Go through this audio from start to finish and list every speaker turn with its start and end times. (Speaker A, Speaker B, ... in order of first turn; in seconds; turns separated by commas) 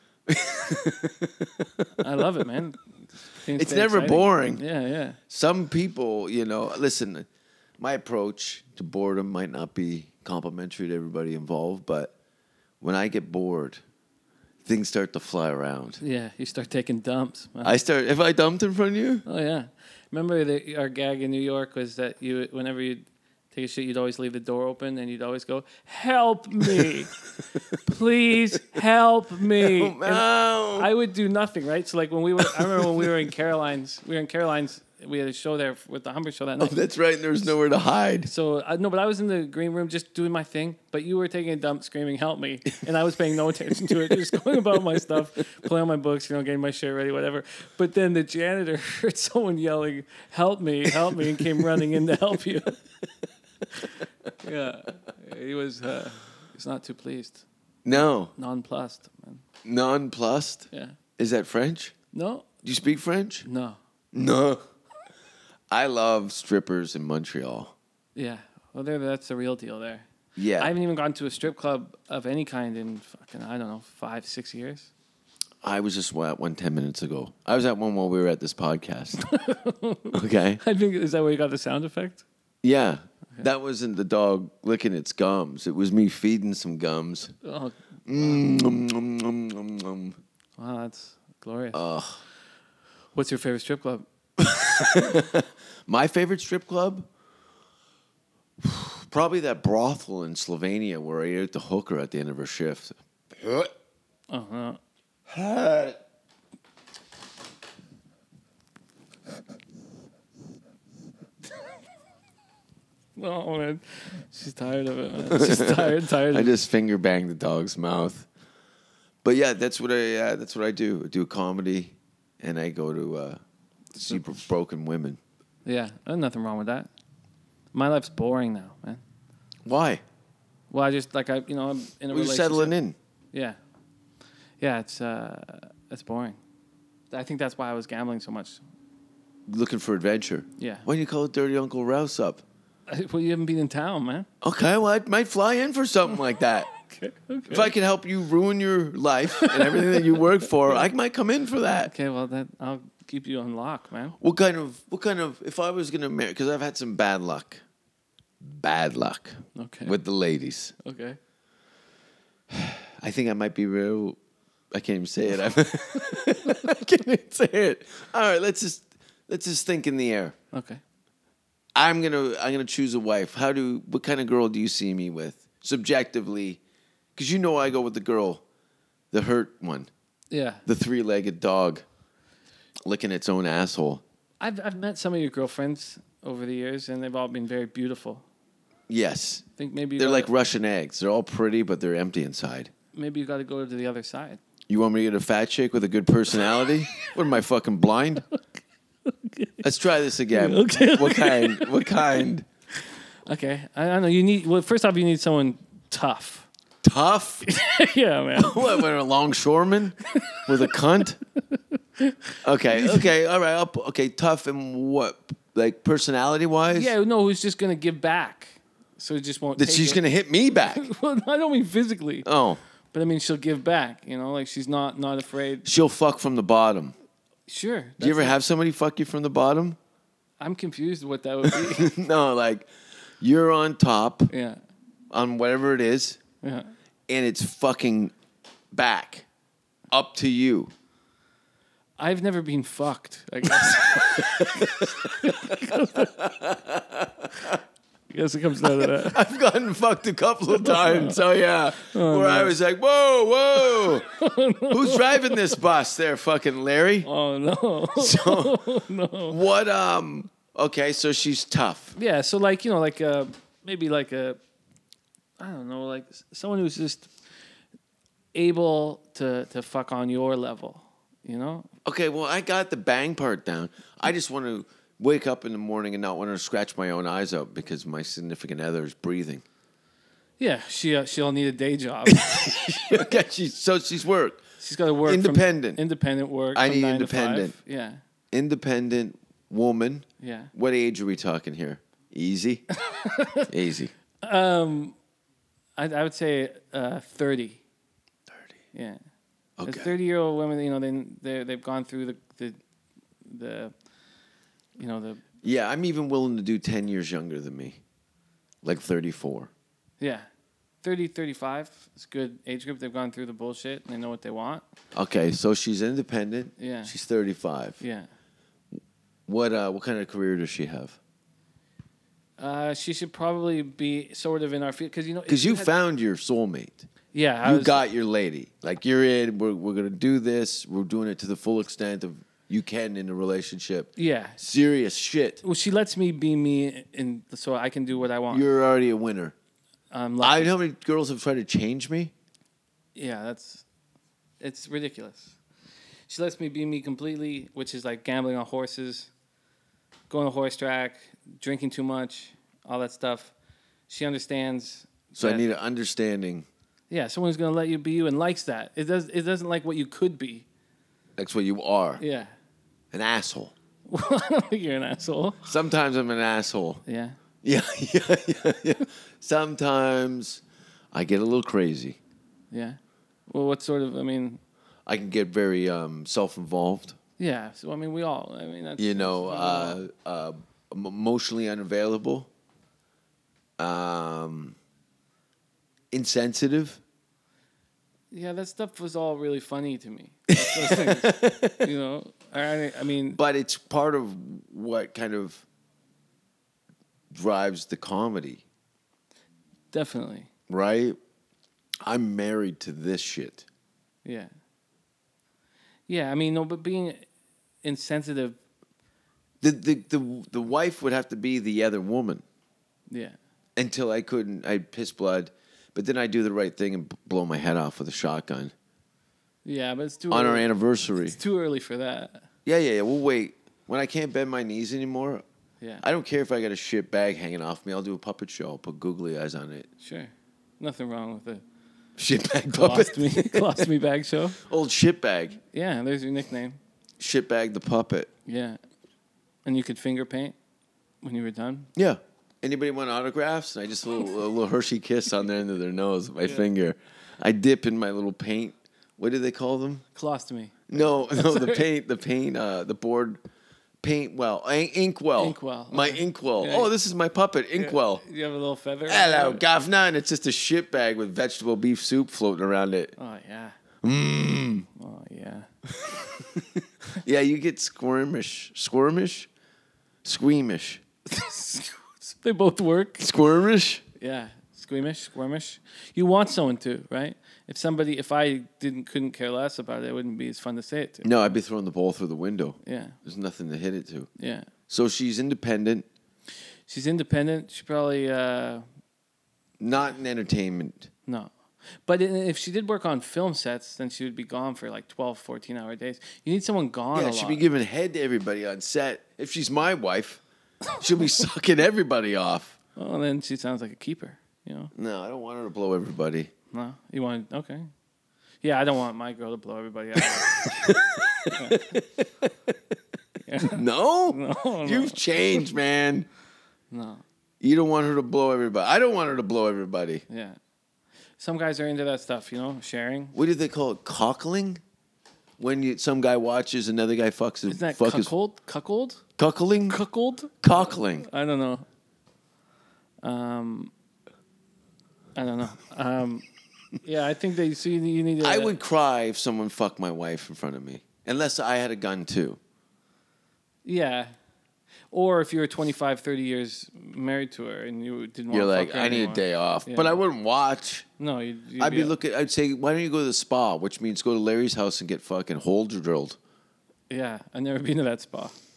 Speaker A: 0.3-2.0, Speaker B: 2.0-5.2, Speaker A: 3.5-4.6, Speaker A: 5.3-7.3, Speaker A: 7.8-12.1, Speaker A: 12.8-13.8, Speaker A: 14.6-16.0, Speaker B: 16.0-17.8, Speaker A: 17.6-19.2, Speaker B: 19.2-27.1, Speaker B: 27.8-36.8, Speaker A: 29.6-30.9, Speaker A: 32.4-33.1, Speaker A: 36.6-38.3, Speaker B: 38.2-52.8, Speaker A: 51.1-51.7, Speaker B: 54.4-59.4, Speaker A: 57.8-58.3, Speaker A: 59.6-61.9, Speaker B: 60.7-61.0, Speaker B: 62.1-62.5, Speaker A: 62.6-63.5, Speaker B: 63.4-63.8, Speaker A: 64.1-64.6, Speaker A: 65.7-67.7, Speaker B: 68.1-70.1, Speaker A: 70.3-70.7, Speaker B: 70.6-74.9, Speaker A: 75.6-79.2, Speaker B: 79.2-82.2, Speaker A: 80.1-80.6, Speaker A: 82.6-87.3, Speaker B: 87.4-88.4, Speaker A: 88.1-90.2, Speaker B: 90.6-91.8, Speaker A: 91.7-92.2, Speaker B: 93.1-94.0, Speaker A: 94.4-97.1, Speaker A: 98.6-103.7, Speaker B: 104.3-104.8, Speaker A: 105.3-106.0, Speaker B: 113.2-116.5, Speaker A: 115.3-118.3, Speaker A: 119.2-123.4, Speaker A: 123.9-125.2, Speaker B: 125.6-126.9, Speaker B: 127.7-129.0, Speaker A: 129.6-130.0, Speaker B: 130.7-132.8, Speaker A: 132.1-132.9, Speaker B: 134.6-136.4, Speaker B: 137.1-138.6, Speaker A: 139.5-142.4, Speaker B: 140.6-140.9, Speaker B: 142.9-144.3, Speaker A: 144.4-146.7, Speaker B: 146.8-147.7, Speaker A: 147.5-151.9, Speaker B: 149.4-150.8, Speaker B: 151.8-154.2, Speaker A: 154.2-157.6, Speaker A: 158.4-160.7, Speaker B: 159.5-160.0, Speaker B: 160.8-161.2, Speaker A: 162.5-164.2, Speaker A: 164.7-170.3, Speaker B: 170.5-170.8, Speaker A: 171.7-176.6, Speaker A: 177.2-178.4, Speaker A: 179.1-179.9, Speaker B: 180.3-180.6, Speaker A: 180.7-181.8, Speaker A: 182.8-184.0, Speaker B: 184.4-188.2, Speaker A: 188.9-189.4, Speaker B: 189.6-190.3, Speaker A: 190.0-192.7, Speaker B: 192.9-194.4, Speaker A: 194.7-198.2, Speaker B: 199.1-199.6, Speaker A: 199.6-202.4, Speaker B: 200.3-201.8, Speaker B: 203.2-206.5, Speaker A: 206.8-207.4, Speaker B: 207.4-208.8, Speaker A: 208.3-211.2, Speaker B: 210.1-210.7, Speaker B: 211.6-213.1, Speaker A: 212.4-216.9, Speaker B: 216.7-220.0, Speaker A: 219.6-220.9, Speaker B: 220.6-222.3, Speaker A: 222.2-222.6, Speaker B: 222.9-225.7, Speaker A: 225.6-226.9, Speaker B: 227.5-228.4, Speaker A: 228.0-229.8, Speaker B: 230.4-231.9, Speaker A: 231.4-232.7, Speaker A: 233.2-234.3, Speaker B: 234.3-234.6, Speaker A: 235.1-236.2, Speaker B: 236.4-236.7, Speaker A: 237.1-238.1, Speaker A: 238.7-239.3, Speaker A: 239.9-240.7, Speaker B: 242.0-246.2, Speaker A: 243.4-247.6, Speaker B: 248.1-249.2, Speaker A: 248.6-254.1, Speaker B: 250.5-251.2, Speaker B: 251.8-252.5, Speaker B: 253.7-255.6, Speaker A: 254.7-257.1, Speaker B: 257.0-259.4, Speaker A: 257.9-258.6, Speaker A: 259.3-261.9, Speaker B: 261.9-264.4, Speaker B: 265.4-267.1, Speaker B: 268.3-271.7, Speaker A: 271.8-279.4, Speaker B: 280.4-283.1, Speaker A: 282.1-284.4, Speaker B: 284.6-288.0, Speaker A: 285.0-285.8, Speaker A: 286.5-287.6, Speaker A: 288.3-292.6, Speaker B: 290.2-290.5, Speaker B: 292.8-293.5, Speaker A: 293.5-293.9, Speaker B: 294.2-294.9, Speaker B: 295.8-297.6, Speaker A: 298.3-298.6, Speaker B: 298.7-299.0, Speaker A: 299.6-299.9, Speaker B: 299.6-302.6, Speaker B: 303.2-303.7, Speaker B: 304.8-305.2, Speaker A: 305.4-307.8, Speaker A: 308.6-309.5, Speaker B: 310.0-310.3, Speaker B: 310.8-314.6, Speaker A: 314.9-317.8, Speaker B: 316.6-316.9, Speaker B: 317.8-318.1, Speaker A: 319.3-321.0, Speaker B: 322.4-325.7, Speaker A: 325.3-326.9, Speaker B: 327.1-327.8, Speaker A: 327.4-335.4, Speaker B: 333.9-334.4, Speaker B: 335.4-338.5, Speaker A: 338.3-339.3, Speaker B: 339.9-340.5, Speaker A: 340.2-342.1, Speaker B: 342.9-343.6, Speaker B: 344.4-345.4, Speaker B: 346.1-349.1, Speaker B: 350.1-353.3, Speaker B: 353.9-355.4, Speaker A: 355.1-356.5, Speaker B: 356.9-360.4, Speaker A: 361.2-362.0, Speaker B: 362.0-362.3, Speaker A: 362.9-363.5, Speaker B: 363.9-365.5, Speaker A: 365.4-366.8, Speaker B: 366.9-367.2, Speaker A: 367.4-372.0, Speaker B: 372.5-374.4, Speaker A: 374.9-377.0, Speaker B: 377.2-379.8, Speaker A: 378.8-382.3, Speaker A: 383.6-384.6, Speaker A: 385.9-386.8, Speaker B: 388.1-393.2, Speaker A: 390.3-391.7, Speaker A: 393.1-395.4, Speaker A: 397.1-398.4, Speaker B: 399.7-400.3, Speaker A: 400.5-401.0, Speaker A: 401.8-403.4, Speaker B: 404.0-404.3, Speaker B: 405.9-407.1, Speaker B: 407.6-408.4, Speaker A: 409.4-412.2, Speaker B: 412.9-413.1, Speaker A: 413.6-418.5, Speaker B: 419.4-420.5, Speaker A: 420.1-421.2, Speaker B: 421.0-422.3, Speaker A: 422.4-425.2, Speaker A: 425.8-429.7, Speaker B: 429.8-431.4, Speaker A: 432.0-433.7, Speaker B: 432.5-434.4, Speaker A: 434.4-435.4, Speaker B: 435.5-436.6, Speaker A: 437.0-438.1, Speaker B: 438.2-438.6, Speaker B: 439.4-440.4, Speaker B: 441.0-441.7, Speaker A: 441.7-449.8, Speaker B: 446.2-446.5, Speaker B: 449.9-451.6, Speaker A: 450.7-453.2, Speaker A: 453.8-458.0, Speaker B: 455.2-456.7, Speaker B: 457.6-459.4, Speaker A: 458.9-462.9, Speaker B: 463.0-463.6, Speaker A: 463.8-464.7, Speaker B: 464.7-465.5, Speaker A: 465.8-469.3, Speaker A: 470.0-470.8, Speaker B: 471.1-473.1, Speaker A: 473.0-473.8, Speaker B: 474.0-481.3, Speaker A: 481.0-484.1, Speaker B: 482.6-483.0, Speaker B: 484.2-484.5, Speaker A: 484.7-485.9, Speaker B: 486.7-488.6, Speaker A: 489.6-490.9, Speaker B: 491.9-497.4, Speaker A: 496.9-500.2, Speaker A: 500.8-502.6, Speaker B: 502.8-504.7, Speaker A: 504.7-506.3, Speaker B: 506.5-507.7, Speaker B: 508.4-510.6, Speaker A: 510.0-512.5, Speaker B: 511.3-511.8, Speaker B: 513.2-515.4, Speaker A: 513.4-516.1, Speaker B: 516.7-517.0, Speaker A: 517.4-520.0, Speaker B: 520.1-520.4, Speaker B: 521.2-523.1, Speaker A: 523.1-524.6, Speaker A: 525.4-528.1, Speaker B: 527.5-529.0, Speaker A: 529.2-529.8, Speaker B: 529.7-531.6, Speaker A: 530.4-531.1, Speaker B: 533.0-533.7, Speaker B: 535.1-536.3, Speaker B: 536.8-538.5, Speaker A: 538.2-542.4, Speaker B: 543.6-544.1, Speaker B: 544.9-550.0, Speaker A: 548.3-550.9, Speaker B: 551.0-552.0, Speaker A: 551.6-556.2, Speaker B: 556.9-558.4